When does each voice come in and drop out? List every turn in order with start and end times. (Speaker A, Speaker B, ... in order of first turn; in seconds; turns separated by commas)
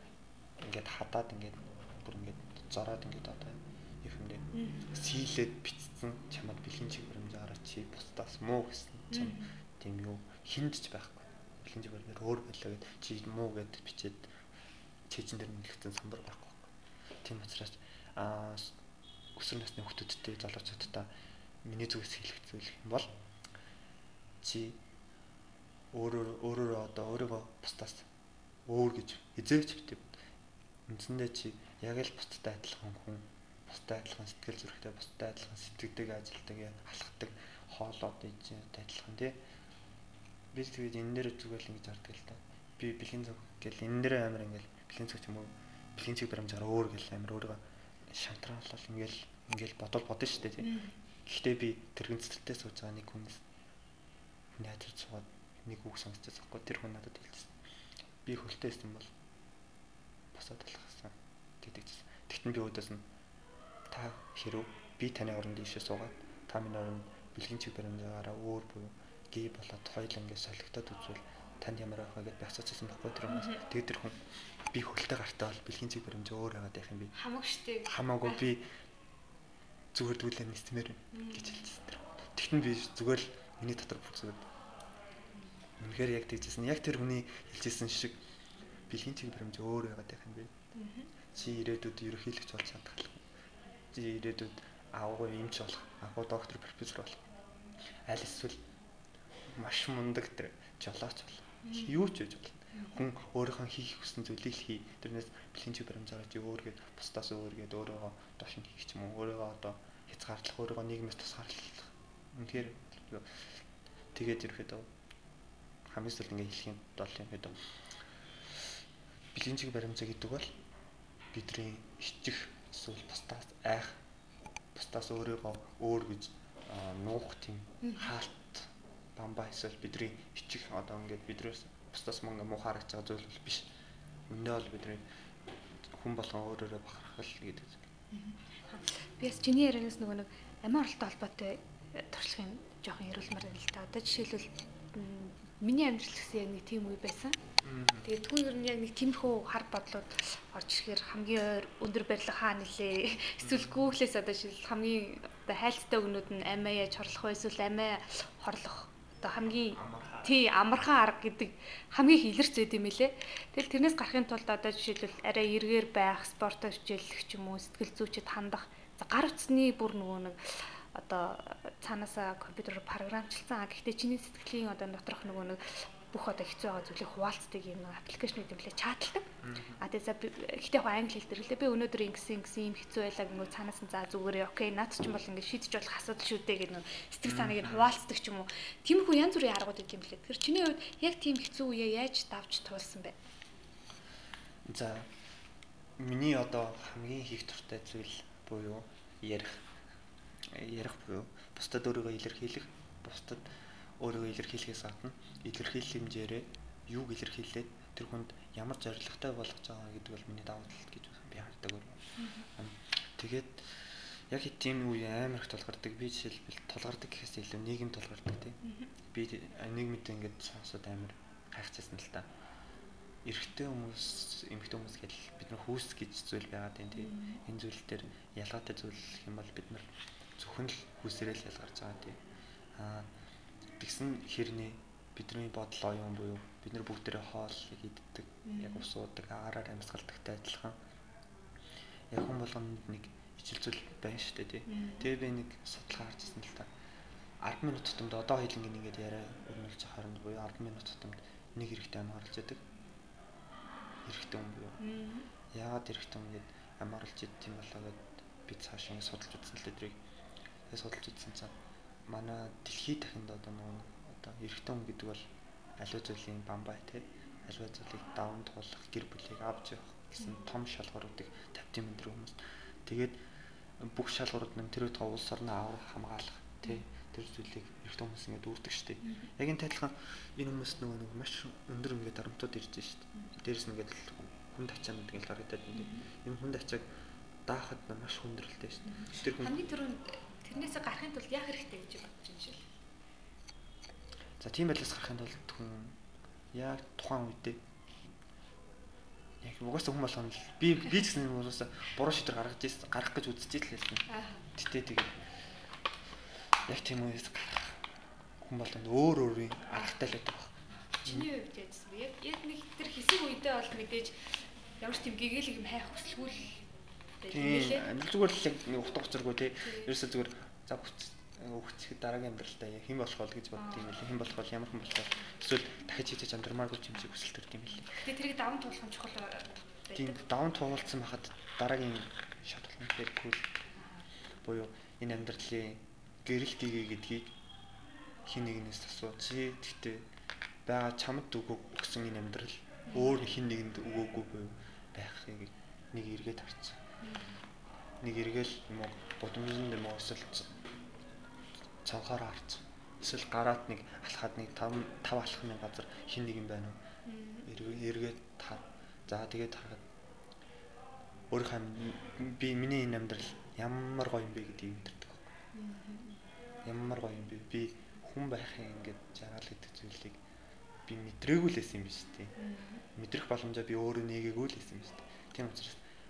Speaker A: 0.6-14.3, Speaker B: 4.5-4.9, Speaker B: 9.1-9.5, Speaker A: 15.1-16.7, Speaker A: 17.2-18.8, Speaker A: 19.4-21.1, Speaker A: 21.6-23.1, Speaker A: 24.4-24.8, Speaker A: 25.9-28.1, Speaker A: 28.7-30.1, Speaker A: 30.9-39.4, Speaker A: 40.5-53.4, Speaker B: 50.6-51.0, Speaker A: 54.5-57.5, Speaker A: 58.2-59.1, Speaker A: 60.3-63.1, Speaker A: 63.9-77.1, Speaker B: 73.3-73.6, Speaker B: 77.2-78.4, Speaker A: 77.8-78.7, Speaker A: 79.9-84.5, Speaker B: 81.1-81.6, Speaker A: 85.8-88.2, Speaker A: 88.9-90.5, Speaker B: 90.8-91.1, Speaker A: 91.3-93.2, Speaker A: 93.9-97.2, Speaker A: 98.1-98.6, Speaker A: 99.5-113.4, Speaker B: 101.6-102.0, Speaker B: 102.7-103.0, Speaker A: 114.1-114.9, Speaker A: 115.9-117.7, Speaker A: 119.3-120.5, Speaker A: 121.3-124.0, Speaker A: 124.7-133.7, Speaker B: 127.8-128.1, Speaker A: 134.3-135.1, Speaker A: 135.9-137.9, Speaker B: 138.1-147.4, Speaker A: 147.6-148.1, Speaker B: 148.0-193.2, Speaker A: 153.4-153.9, Speaker A: 159.7-160.4, Speaker A: 179.4-179.8, Speaker A: 187.2-187.9, Speaker A: 194.7-195.1, Speaker A: 196.0-199.7, Speaker A: 200.5-203.5, Speaker A: 204.0-212.0, Speaker B: 212.2-212.5, Speaker A: 212.6-222.3, Speaker B: 218.6-218.9, Speaker A: 223.2-232.2, Speaker B: 226.9-227.4, Speaker A: 232.8-233.1, Speaker A: 233.8-240.8, Speaker B: 238.4-238.9, Speaker A: 242.1-246.7, Speaker B: 244.7-245.1, Speaker A: 247.4-252.6, Speaker A: 254.1-254.8, Speaker B: 254.8-255.3, Speaker A: 255.5-260.0, Speaker A: 260.7-261.6, Speaker A: 262.1-273.2, Speaker B: 270.2-270.4, Speaker A: 273.8-286.9, Speaker B: 279.0-279.3, Speaker B: 285.8-286.1, Speaker A: 287.5-289.6, Speaker B: 288.9-292.7, Speaker A: 294.4-296.0, Speaker A: 296.5-297.6, Speaker A: 299.4-304.0, Speaker B: 304.1-304.4, Speaker A: 304.6-305.2, Speaker A: 306.7-307.8, Speaker A: 308.4-311.3, Speaker B: 309.7-310.0, Speaker B: 311.0-314.3, Speaker B: 314.8-316.6, Speaker B: 317.2-317.9, Speaker A: 317.3-328.0, Speaker B: 319.6-319.9, Speaker B: 323.6-323.9, Speaker B: 327.9-330.2, Speaker A: 329.9-333.5, Speaker A: 334.4-337.4, Speaker A: 338.2-340.1, Speaker A: 340.7-346.8, Speaker B: 342.9-343.2, Speaker B: 347.0-347.4, Speaker A: 348.0-350.6, Speaker A: 351.8-356.8, Speaker B: 357.1-357.5, Speaker A: 357.4-359.9, Speaker A: 361.3-365.3, Speaker B: 365.6-366.2, Speaker A: 366.6-370.2, Speaker A: 370.9-372.3, Speaker B: 372.4-372.8, Speaker A: 372.9-375.8